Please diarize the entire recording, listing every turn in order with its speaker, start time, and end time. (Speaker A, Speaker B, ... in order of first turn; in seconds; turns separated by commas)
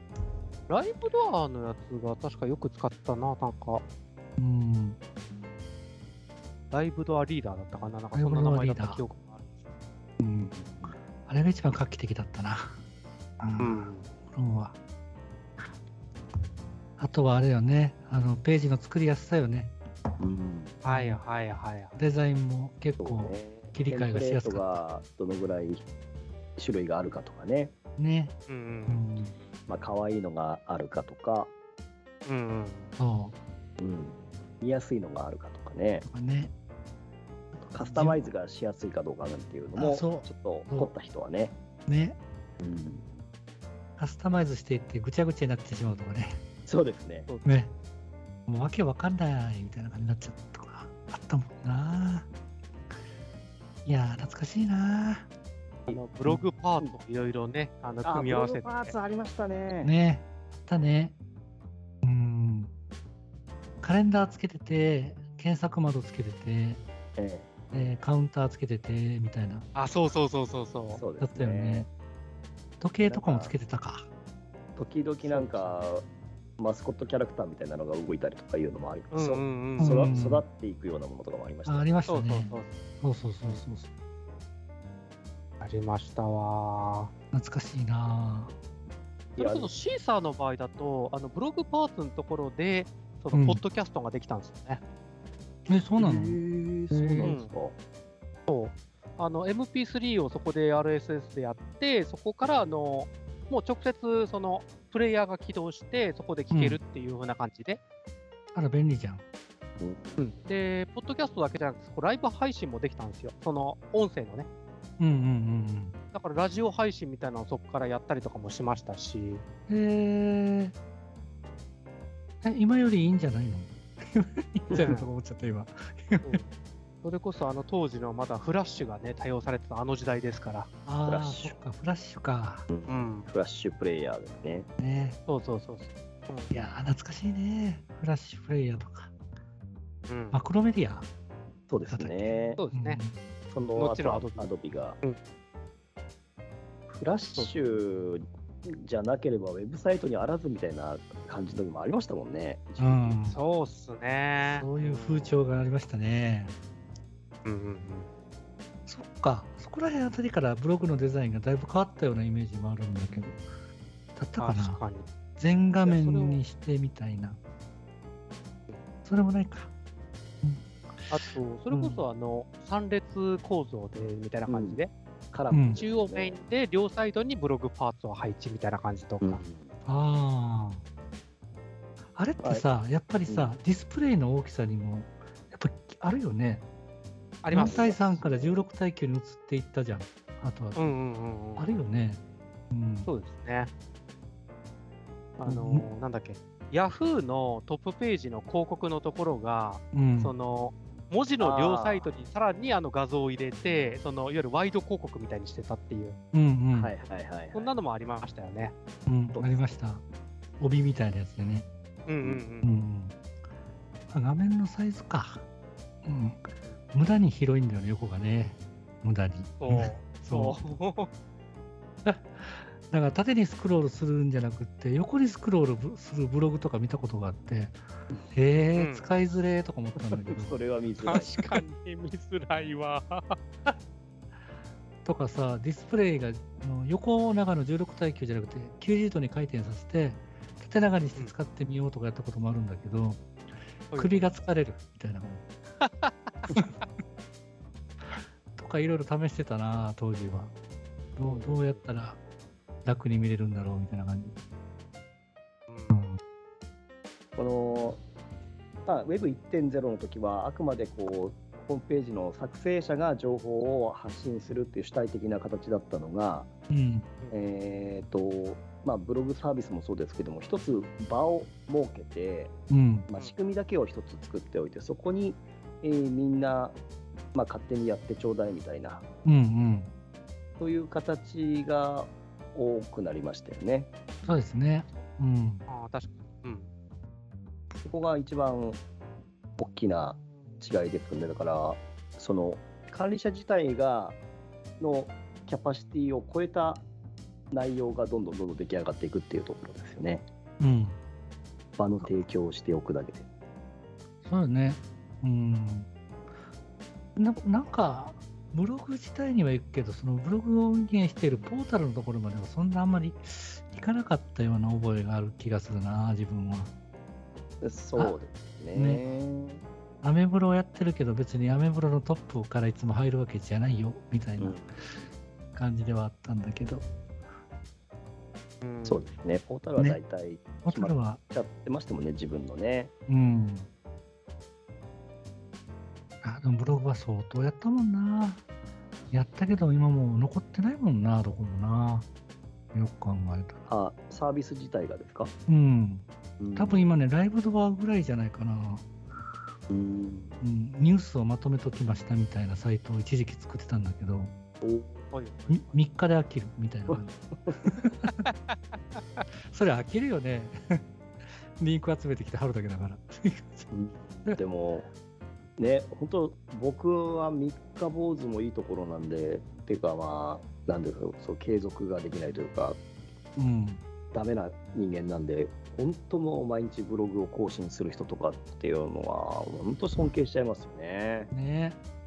Speaker A: 0.7-3.8, Speaker B: 4.4-5.0, Speaker A: 6.7-9.5, Speaker B: 8.1-9.0, Speaker B: 10.2-10.6, Speaker C: 10.5-10.9, Speaker B: 11.3-12.8, Speaker B: 13.4-14.8, Speaker A: 13.6-14.1, Speaker B: 17.0-19.8, Speaker C: 20.2-20.8, Speaker A: 20.8-22.0, Speaker B: 20.9-21.2, Speaker B: 21.9-24.8, Speaker C: 23.0-25.8, Speaker C: 26.6-27.7, Speaker B: 28.0-28.4, Speaker A: 28.5-29.1, Speaker B: 28.9-29.4, Speaker C: 29.7-31.5, Speaker A: 32.2-32.9, Speaker B: 33.0-33.4, Speaker C: 33.8-36.1, Speaker B: 36.0-36.5, Speaker C: 37.6-41.6, Speaker B: 37.8-38.3, Speaker B: 39.8-40.9, Speaker B: 41.9-42.2, Speaker C: 42.6-43.0, Speaker B: 44.0-46.4, Speaker C: 46.7-47.3, Speaker B: 47.4-47.7, Speaker B: 48.5-52.3, Speaker B: 53.9-55.3, Speaker C: 55.9-56.9, Speaker A: 55.9-58.9, Speaker C: 58.0-59.9, Speaker B: 59.7-61.2, Speaker B: 62.0-62.7, Speaker B: 63.8-66.8, Speaker C: 67.2-67.8, Speaker B: 67.7-69.7, Speaker A: 69.8-71.0, Speaker C: 71.0-71.9, Speaker B: 71.2-71.9, Speaker B: 72.8-74.1, Speaker C: 73.0-73.5, Speaker C: 74.8-76.0, Speaker A: 75.2-75.8, Speaker C: 76.6-81.9, Speaker A: 79.1-80.1, Speaker B: 79.8-80.4, Speaker B: 81.7-83.9, Speaker A: 82.1-82.8, Speaker A: 85.6-87.1, Speaker B: 87.3-88.5, Speaker A: 89.4-94.8, Speaker C: 89.4-89.7, Speaker B: 93.3-93.6, Speaker B: 95.7-97.3, Speaker C: 96.0-97.8, Speaker A: 97.2-97.5, Speaker A: 98.5-107.8, Speaker B: 106.5-106.8, Speaker B: 108.5-109.2, Speaker C: 109.8-110.2, Speaker A: 110.2-114.5, Speaker B: 115.0-116.0, Speaker A: 116.1-119.4, Speaker B: 119.7-120.8, Speaker B: 122.4-126.4, Speaker A: 124.7-125.1, Speaker A: 126.2-126.5, Speaker A: 127.0-130.7, Speaker B: 130.8-132.7, Speaker C: 131.0-131.6, Speaker C: 132.7-134.7, Speaker A: 132.9-133.3, Speaker B: 134.8-135.2, Speaker A: 135.3-136.5, Speaker B: 136.5-139.1, Speaker A: 140.1-140.4, Speaker B: 140.3-141.1, Speaker C: 141.7-142.6, Speaker B: 141.9-143.2, Speaker A: 142.6-143.0, Speaker C: 143.5-145.0, Speaker A: 143.8-144.5, Speaker C: 146.9-153.2, Speaker A: 147.3-147.6, Speaker B: 152.8-153.4, Speaker A: 153.3-155.4, Speaker B: 154.5-156.5, Speaker A: 157.4-158.1, Speaker B: 158.8-163.4, Speaker B: 164.2-164.8, Speaker A: 164.4-165.1, Speaker B: 165.4-167.4, Speaker A: 165.8-166.4, Speaker B: 169.1-169.7, Speaker B: 170.4-172.0, Speaker A: 171.1-174.9, Speaker C: 174.5-174.8, Speaker C: 175.3-176.4, Speaker B: 175.5-175.8, Speaker A: 175.5-179.4, Speaker C: 179.2-179.7, Speaker B: 179.8-180.8, Speaker B: 182.1-186.7, Speaker C: 182.4-182.7, Speaker C: 183.3-183.5, Speaker A: 187.4-187.9, Speaker B: 187.5-190.9, Speaker C: 187.5-188.7, Speaker A: 190.8-191.8, Speaker B: 191.6-193.1, Speaker A: 193.1-193.7, Speaker A: 195.4-206.2, Speaker B: 195.4-195.9, Speaker B: 199.9-200.3, Speaker C: 201.4-202.2, Speaker B: 206.3-206.9, Speaker C: 206.8-207.7, Speaker A: 207.5-208.8, Speaker B: 209.1-210.0, Speaker C: 209.3-209.6, Speaker B: 210.6-211.7, Speaker A: 212.1-212.7, Speaker B: 212.6-213.2, Speaker B: 214.1-215.4, Speaker B: 216.1-220.6, Speaker A: 219.6-221.1, Speaker B: 222.1-227.8, Speaker B: 228.3-230.6, Speaker A: 228.6-229.1, Speaker C: 230.3-231.6, Speaker A: 231.0-233.3, Speaker B: 235.1-243.2, Speaker A: 243.9-244.4, Speaker B: 243.9-245.4, Speaker A: 245.8-246.6, Speaker B: 248.1-250.6, Speaker B: 251.2-252.2, Speaker A: 251.2-251.8, Speaker B: 252.8-254.3, Speaker A: 255.7-256.0, Speaker B: 255.9-256.2, Speaker C: 257.4-258.0, Speaker C: 258.9-266.5, Speaker B: 266.7-267.1, Speaker C: 267.3-272.5, Speaker B: 272.7-273.1, Speaker C: 273.1-276.8, Speaker C: 277.3-279.0, Speaker B: 279.2-279.9, Speaker C: 280.6-283.9, Speaker B: 284.2-285.7, Speaker A: 285.7-286.7, Speaker C: 287.9-288.8, Speaker C: 289.6-294.2, Speaker C: 294.8-296.9, Speaker C: 297.5-300.2, Speaker B: 300.6-301.0, Speaker C: 301.8-303.3, Speaker B: 304.2-305.9, Speaker B: 307.2-316.7, Speaker C: 317.6-319.6, Speaker B: 318.8-319.0, Speaker B: 320.0-324.7, Speaker C: 324.4-325.1, Speaker B: 325.6-326.8, Speaker A: 328.6-329.1, Speaker C: 328.8-332.9, Speaker B: 330.6-331.2, Speaker B: 333.1-333.7, Speaker B: 336.2-338.4, Speaker B: 339.1-342.1, Speaker B: 342.7-343.6, Speaker C: 343.7-345.3, Speaker B: 345.5-348.9, Speaker C: 346.4-346.9, Speaker C: 349.7-350.4, Speaker B: 350.4-354.3, Speaker C: 354.6-355.1, Speaker A: 355.1-355.8, Speaker B: 355.5-358.1, Speaker C: 356.9-357.6, Speaker A: 358.3-359.2, Speaker B: 359.5-360.9, Speaker B: 361.6-363.7, Speaker C: 363.7-364.9, Speaker C: 365.6-372.8, Speaker B: 373.4-373.8, Speaker C: 374.1-381.3, Speaker B: 381.3-381.8